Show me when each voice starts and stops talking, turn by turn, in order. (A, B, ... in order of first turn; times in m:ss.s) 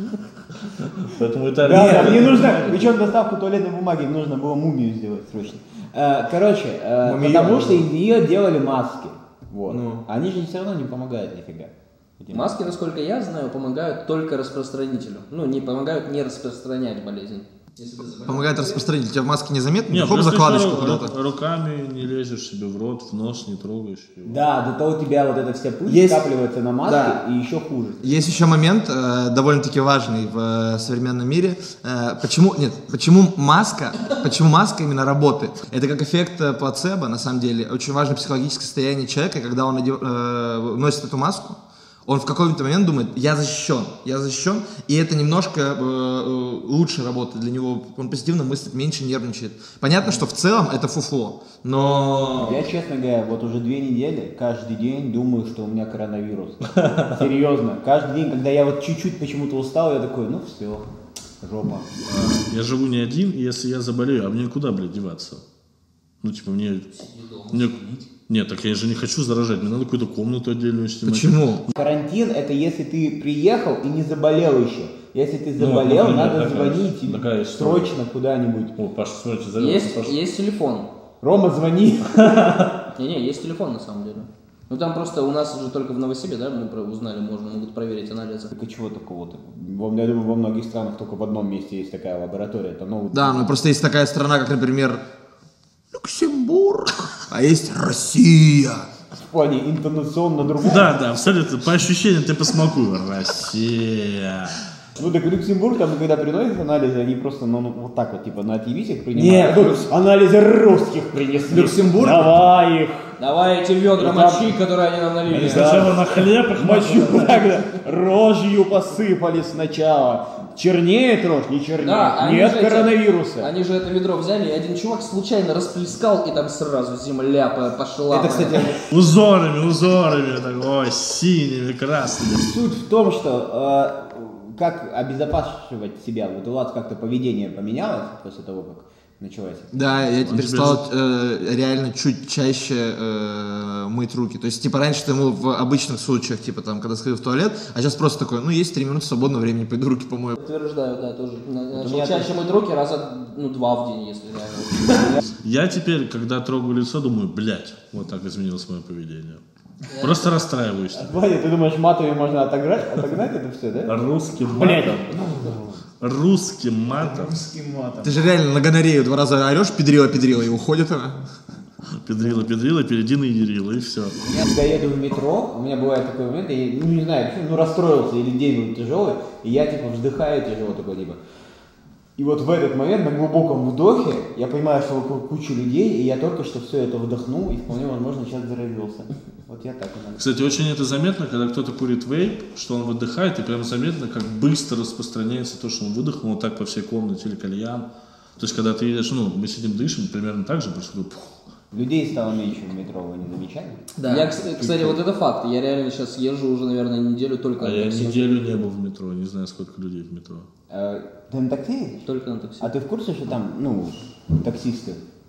0:00.8-0:02.9 A
0:01.6-0:12.6 B
0:01.7-0:02.4 C
0:07.0-0:07.9 C
0:09.7-0:10.0 C
0:12.3-0:18.8 D
0:18.3-0:21.1 C
0:19.9-0:24.4 A
0:24.2-0:28.1 B
0:25.9-0:26.2 C
0:26.8-0:27.2 C
0:28.0-0:52.7 C
0:52.4-1:00.9 B
0:56.8-0:57.1 A
1:01.4-1:01.9 B
1:02.1-1:05.4 A
1:06.2-1:06.9 A
1:06.9-1:08.0 D
1:07.5-1:11.6 A
1:11.0-1:11.6 C
1:11.7-1:18.8 B
1:15.6-1:17.9 A
1:18.8-1:20.2 A
1:19.6-1:20.9 D
1:21.2-1:22.6 B
1:22.2-1:22.7 A
1:23.0-1:28.5 D
1:28.5-1:33.5 B
1:33.1-1:35.0 C
1:35.9-1:38.9 C
1:39.1-1:41.0 B
1:40.6-1:44.6 A
1:45.0-1:53.1 B
1:49.1-1:49.9 C
1:51.5-1:52.3 C
1:53.2-1:56.0 D
1:54.0-1:54.5 B
1:55.3-1:57.6 A
1:55.4-1:56.0 B
1:56.5-2:03.5 B
2:01.8-2:08.7 D
2:08.1-2:08.9 B
2:08.9-2:12.5 A
2:12.4-2:20.0 B
2:19.7-2:30.4 C
2:20.3-2:20.9 A
2:30.4-2:35.2 D
2:31.7-2:32.4 B
2:34.9-2:35.2 B
2:35.3-2:39.4 A
2:39.9-2:40.2 D
2:40.0-2:41.1 A
2:40.9-2:44.0 B
2:43.9-2:45.5 A
2:44.5-2:45.8 B
2:46.0-2:47.4 A
2:46.9-2:48.3 B
2:48.0-2:51.2 C
2:51.9-2:54.2 A
2:54.3-3:01.2 B
3:02.2-3:10.3 B
3:10.2-3:17.9 A
3:18.4-3:21.4 A
3:21.7-3:25.0 B
3:24.0-3:24.3 C
3:24.1-3:28.3 D
3:27.6-3:30.5 A
3:30.7-3:32.0 B
3:32.0-3:32.7 D
3:32.6-3:35.0 B